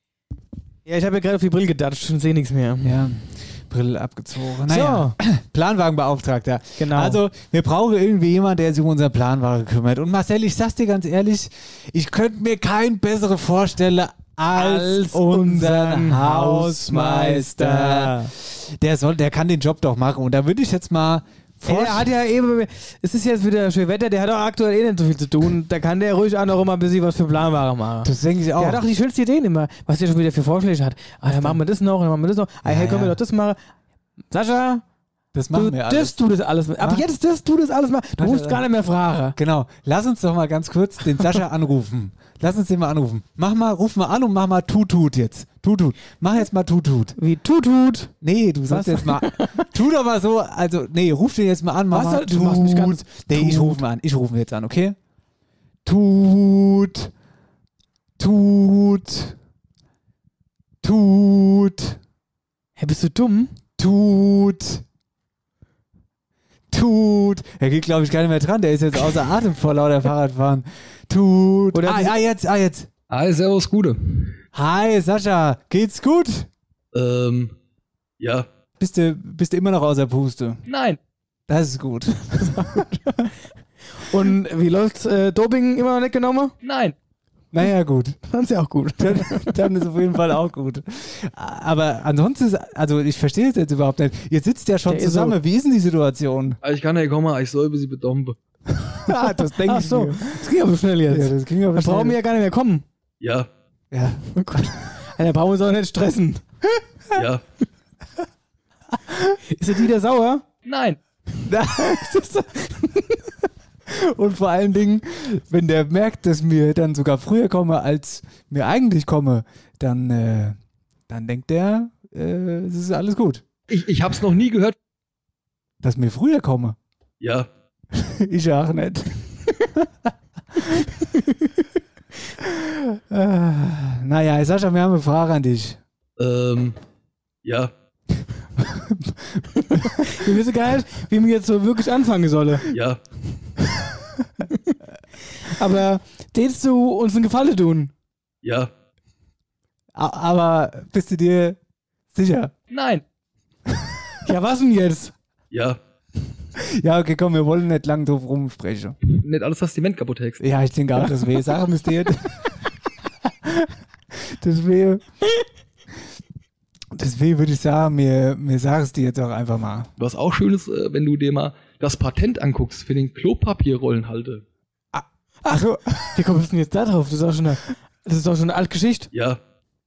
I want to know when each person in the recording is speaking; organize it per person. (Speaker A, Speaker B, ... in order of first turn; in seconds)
Speaker A: 0.8-3.0, 4.7-5.2, 6.8-7.2, 14.5-18.3, 21.6-33.6, 34.3-34.8, 35.5-39.4, 47.2-48.1, 48.7-49.6, 51.9-53.8, 62.8-63.5, 71.7-72.2, 82.4-83.1, 83.9-86.5, 88.3-89.5, 94.9-95.4, 99.1-102.8, 104.3-106.4, 109.5-110.4, 111.8-113.2, 139.6-142.6, 145.4-147.9, 154.2-155.1, 176.1-179.1
Speaker B: 2.8-22.1, 28.0-28.8, 31.3-31.6, 32.6-33.2, 35.3-36.2, 38.2-38.6, 39.4-47.1, 48.2-55.0, 55.8-57.1, 58.2-59.4, 60.8-62.0, 63.8-64.8, 66.7-72.9, 74.5-76.5, 78.8-80.6, 81.5-82.9, 87.5-88.2, 89.0-96.6, 99.0-100.4, 101.1-102.2, 103.9-104.8, 111.5-112.1, 113.9-120.6, 121.1-123.4, 125.8-126.8, 127.9-130.9, 132.4-135.8, 138.6-140.2, 149.9-151.6, 152.1-152.5, 156.6-159.0, 160.4-162.5, 163.3-165.0, 166.9-169.9, 174.9-176.2
Speaker C: 73.1-74.3, 76.9-77.5, 78.2-78.5, 80.7-81.0, 86.6-86.9, 96.6-98.3, 103.2-103.5, 107.1-107.4, 110.7-111.0, 123.7-124.7, 127.2-127.5, 136.2-136.8, 137.4-137.7, 142.7-143.0, 148.4-148.7, 152.7-153.0, 155.5-155.8, 159.1-160.4, 170.0-174.4, 179.1-179.4